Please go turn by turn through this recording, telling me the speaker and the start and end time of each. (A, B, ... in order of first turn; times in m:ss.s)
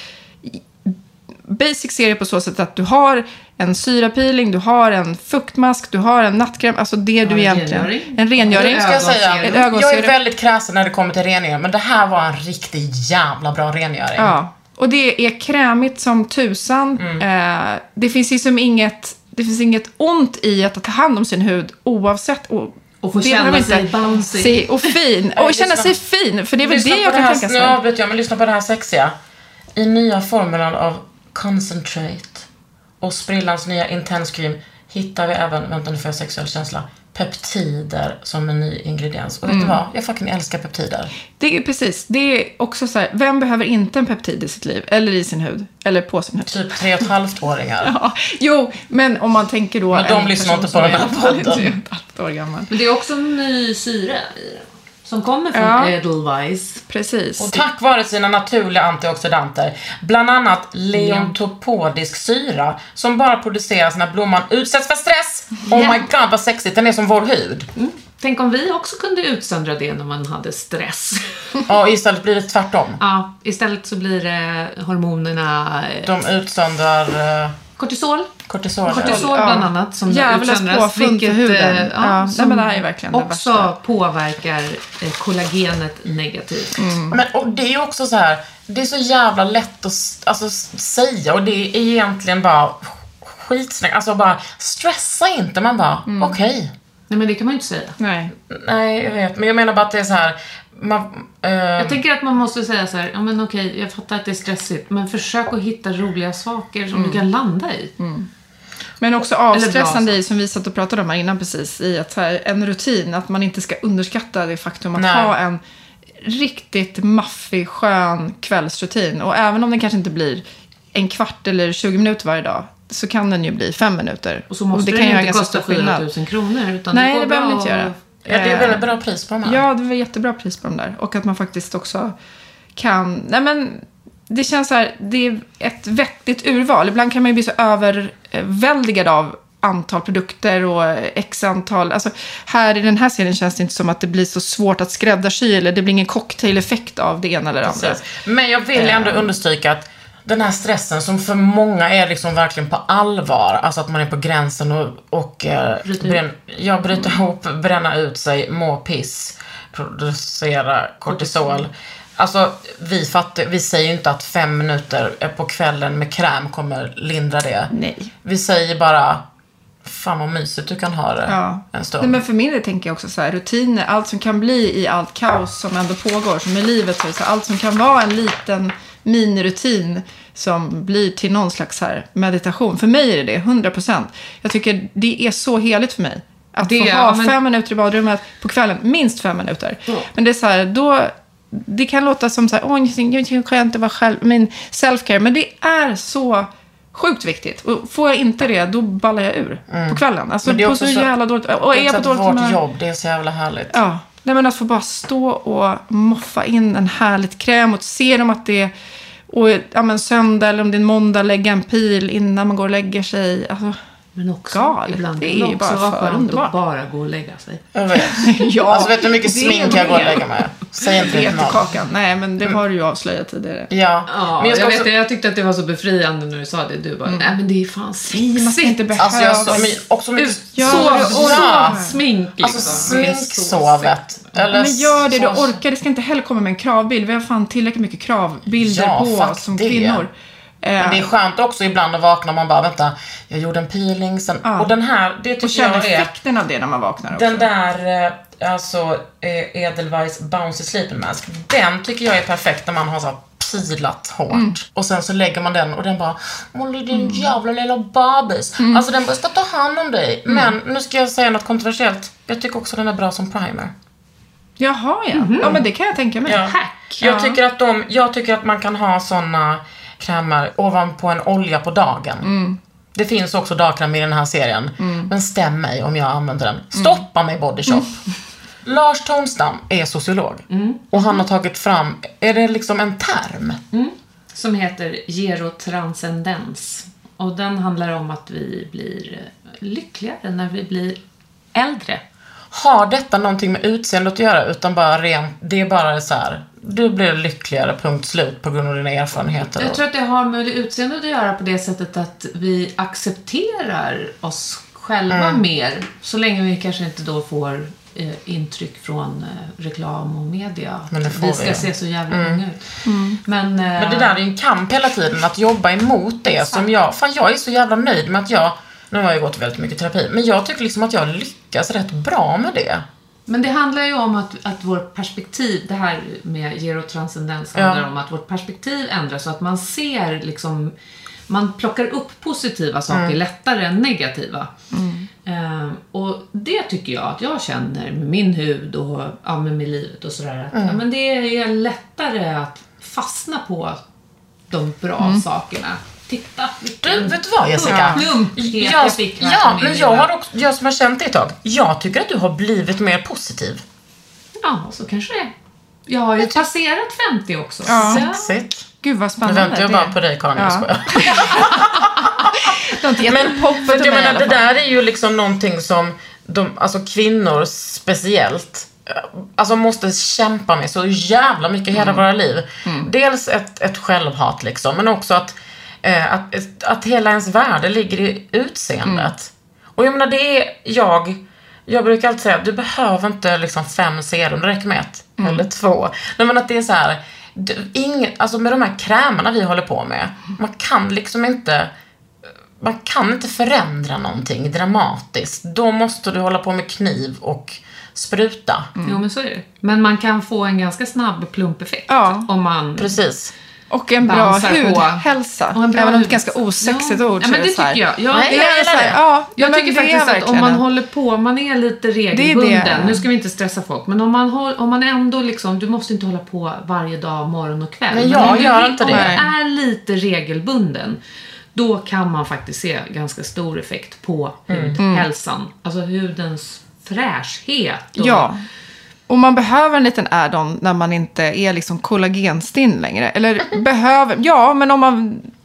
0:00.4-0:00.9 A
0:01.5-0:10.2 A
0:07.2-0:09.7 B
0:08.5-0:14.4 C
0:14.2-0:27.8 A
0:17.0-0:17.2 C
0:23.0-0:24.9 B
0:25.4-0:25.9 C
0:26.6-0:29.1 C
0:29.8-0:32.4 C
0:33.0-0:41.1 C
0:39.4-0:39.8 A
0:41.4-0:47.1 A
0:46.5-0:47.9 C
0:47.8-0:52.7 A
0:49.9-0:51.7 C
0:52.7-0:56.8 B
0:55.5-0:55.9 A
0:56.9-0:57.6 A
0:57.4-1:07.7 C
1:00.9-1:01.3 B
1:05.7-1:06.0 A
1:07.8-1:11.6 B
1:11.7-1:13.0 C
1:13.0-1:16.1 B
1:16.0-1:17.6 C
1:17.8-1:18.3 B
1:18.5-1:19.3 C
1:18.9-1:26.9 B
1:18.9-1:23.7 A
1:26.8-1:27.2 A
1:27.1-1:36.7 C
1:36.1-1:36.4 A
1:37.1-1:38.0 B
1:38.0-1:38.3 A
1:38.5-1:42.0 C
1:41.8-1:47.9 B
1:46.9-1:47.2 A
1:48.0-1:48.3 A
1:49.0-1:55.6 A
1:49.5-1:50.2 B
1:54.9-1:55.3 C
1:56.2-2:06.1 A
2:04.5-2:08.0 B
2:06.9-2:08.9 A
2:08.2-2:09.6 C
2:09.4-2:12.1 A
2:12.8-2:28.0 A
2:27.6-2:47.7 C
2:28.8-2:29.3 A
2:35.8-2:36.2 B
2:41.1-2:41.6 B
2:47.7-2:48.1 A
2:48.2-2:49.2 C
2:49.8-2:52.2 C
2:51.3-3:22.6 A
3:06.6-3:07.4 B
3:19.7-3:21.1 C
3:21.7-3:23.8 C
3:23.7-3:28.7 A
3:29.3-3:33.8 A
3:34.1-3:37.6 B
3:34.5-3:36.5 A
3:37.7-3:41.7 C
3:37.9-3:40.3 A
3:40.9-3:43.7 A
3:43.7-3:44.9 C
3:44.1-3:49.6 B
3:47.0-3:47.3 A
3:48.1-3:49.8 A
3:49.0-3:51.8 C
3:50.2-3:54.0 B
3:50.3-3:52.0 A
3:52.4-3:55.6 C
3:54.4-4:01.1 A
3:58.5-4:00.1 C
4:00.8-4:06.1 C
4:04.4-4:04.7 A
4:05.4-4:07.5 A
4:07.1-4:23.7 C
4:14.3-4:14.6 A
4:16.9-4:17.3 A
4:18.6-4:18.8 A
4:20.3-4:20.5 A
4:24.6-4:27.4 A
4:25.1-4:25.6 B
4:26.2-4:32.3 C
4:32.2-4:32.6 A
4:32.9-4:38.0 C
4:34.8-4:35.1 A
4:36.7-4:37.0 A
4:37.7-4:37.9 A
4:38.6-4:43.6 C
4:40.5-4:41.0 B
4:43.7-4:51.0 B
4:51.5-4:52.0 B
4:52.5-4:59.8 C
4:59.6-5:14.2 B
5:05.1-5:05.4 C
5:10.9-5:12.4 C
5:12.8-5:13.2 A
5:13.8-5:22.8 C
5:16.3-5:16.7 B
5:23.3-5:30.7 B
5:27.6-5:27.8 C
5:31.3-5:34.5 B
5:32.9-5:33.2 C
5:34.7-5:35.1 A
5:35.2-5:43.8 B
5:40.5-5:40.8 C
5:44.5-5:50.1 B
5:45.0-5:45.2 A
5:46.8-5:53.6 C
5:47.6-5:48.2 A
5:54.4-5:55.3 B
5:55.9-5:58.3 B
5:57.6-5:58.1 A
5:57.8-5:58.6 C
5:58.8-6:01.7 A
5:59.2-6:01.9 C
6:02.4-6:04.4 A
6:03.0-6:31.7 C
6:12.6-6:12.9 A
6:18.8-6:19.1 A
6:25.2-6:25.4 A
6:32.6-6:38.7 C
6:38.8-6:39.0 A
6:38.8-6:43.0 B
6:41.9-6:42.3 A
6:42.8-6:43.3 C
6:43.7-6:50.6 A
6:44.0-6:48.6 B
6:48.1-6:49.0 C
6:49.3-7:01.0 B
6:52.1-6:53.0 A
6:57.9-6:59.2 C
6:58.2-6:59.3 A
7:01.6-7:08.3 B
7:04.5-7:04.8 C
7:04.8-7:05.1 A
7:08.0-7:08.4 A
7:09.1-7:15.3 A